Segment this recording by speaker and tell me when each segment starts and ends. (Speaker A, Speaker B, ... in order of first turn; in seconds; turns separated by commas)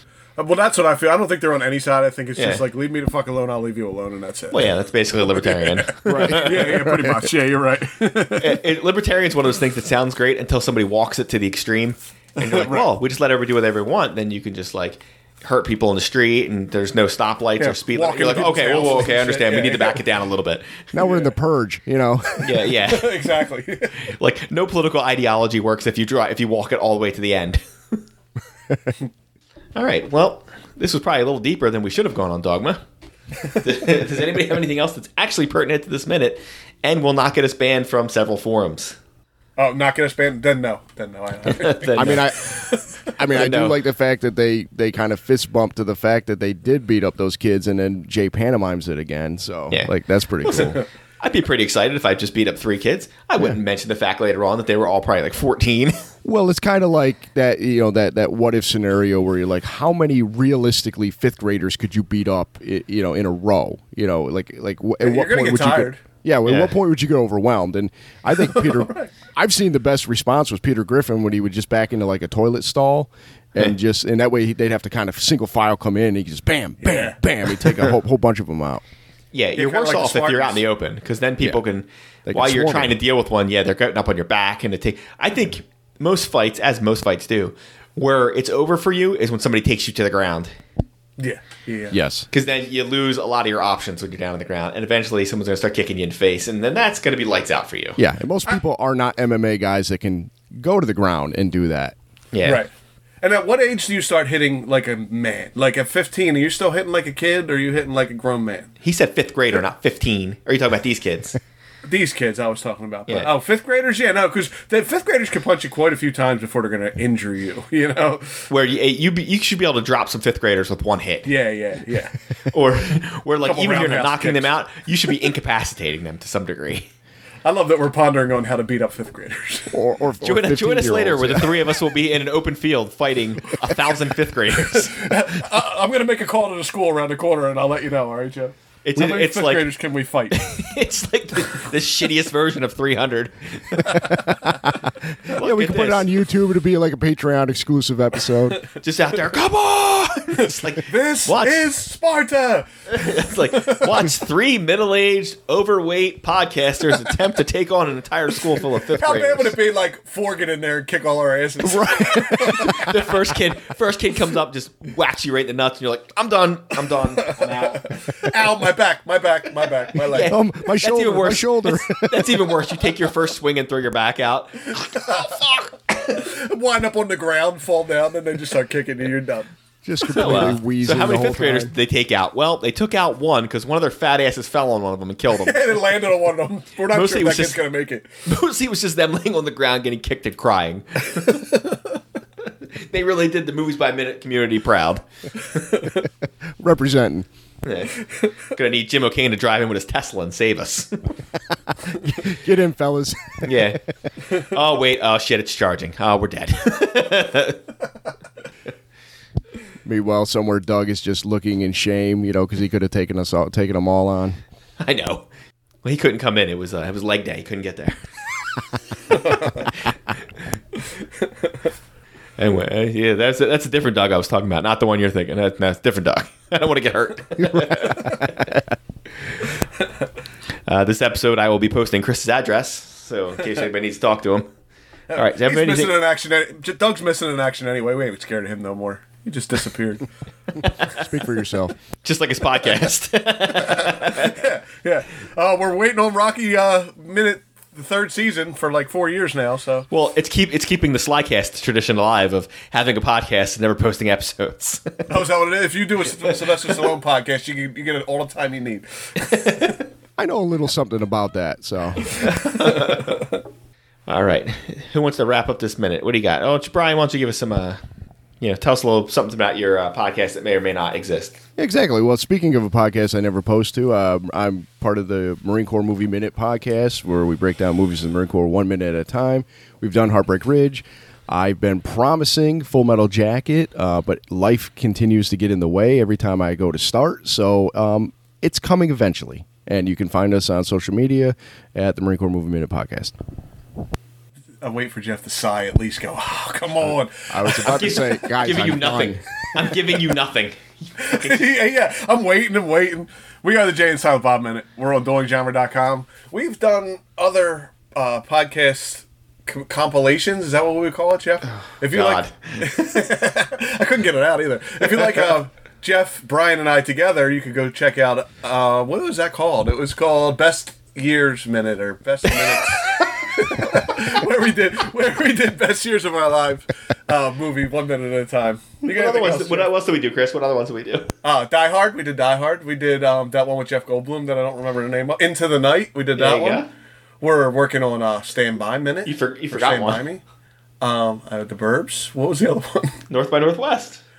Speaker A: 0.4-4.7, Speaker B: 2.4-2.6, Speaker B: 4.5-6.8, Speaker A: 5.3-8.6, Speaker C: 6.0-7.2, Speaker B: 8.4-20.9, Speaker A: 12.4-12.9, Speaker A: 17.6-20.0, Speaker C: 20.9-22.5, Speaker A: 21.0-21.3, Speaker B: 22.4-23.2, Speaker A: 22.7-24.0, Speaker B: 24.0-28.0, Speaker B: 29.7-32.8, Speaker B: 33.5-39.0, Speaker A: 39.6-42.7, Speaker B: 41.5-42.5, Speaker C: 41.9-42.6, Speaker C: 43.1-50.8, Speaker B: 43.3-43.8, Speaker B: 50.4-56.0, Speaker C: 56.2-78.8, Speaker A: 65.0-66.0, Speaker B: 66.5-66.7, Speaker A: 68.5-69.1, Speaker A: 76.8-77.2, Speaker B: 79.3-90.5, Speaker A: 79.5-80.6, Speaker C: 82.2-83.0, Speaker A: 91.2-92.0, Speaker C: 91.9-92.3, Speaker B: 92.3-98.0, Speaker C: 98.0-102.0, Speaker B: 102.3-102.6, Speaker A: 102.4-102.7, Speaker A: 103.2-108.7, Speaker B: 108.8-111.4, Speaker A: 111.8-118.5, Speaker B: 118.5-121.3, Speaker A: 121.2-122.1, Speaker B: 122.5-126.9, Speaker A: 123.4-124.5, Speaker A: 127.4-129.7, Speaker C: 129.7-131.6, Speaker B: 130.2-135.0, Speaker A: 134.7-140.4, Speaker B: 138.8-139.7, Speaker B: 140.3-144.2, Speaker C: 144.0-148.6, Speaker B: 145.3-146.1, Speaker B: 148.8-151.7, Speaker A: 150.8-153.8, Speaker B: 152.9-159.5, Speaker A: 158.9-162.8, Speaker C: 161.6-162.9, Speaker B: 162.3-167.9, Speaker A: 167.4-170.3, Speaker B: 170.0-175.7, Speaker C: 170.2-172.5, Speaker A: 176.0-179.5, Speaker C: 179.8-181.7, Speaker B: 180.1-185.8, Speaker A: 185.3-188.1, Speaker B: 186.9-187.6, Speaker B: 188.2-191.6, Speaker B: 192.8-195.0, Speaker C: 196.6-197.3, Speaker B: 197.6-201.0, Speaker C: 201.9-203.8, Speaker B: 203.4-203.8, Speaker B: 204.3-207.6, Speaker C: 209.8-214.4, Speaker B: 214.8-215.2, Speaker B: 215.8-218.0, Speaker B: 222.4-228.4, Speaker C: 227.4-228.4, Speaker B: 230.7-234.5, Speaker A: 235.1-240.1, Speaker B: 235.1-236.0, Speaker B: 240.6-241.0, Speaker C: 240.8-241.7, Speaker B: 242.0-244.4, Speaker A: 243.7-249.9, Speaker B: 249.9-255.1, Speaker A: 255.1-259.5, Speaker B: 259.3-259.8, Speaker C: 260.2-262.1, Speaker B: 262.2-263.2, Speaker B: 264.1-267.8, Speaker B: 268.4-271.4, Speaker C: 271.6-293.1, Speaker A: 294.6-297.9, Speaker C: 296.9-299.2, Speaker B: 297.6-301.5, Speaker A: 301.0-329.7, Speaker B: 311.9-312.4, Speaker B: 328.8-331.1, Speaker A: 331.2-336.6, Speaker B: 336.1-336.7, Speaker A: 337.2-340.2, Speaker B: 339.0-340.0, Speaker A: 340.8-343.0, Speaker B: 343.1-344.0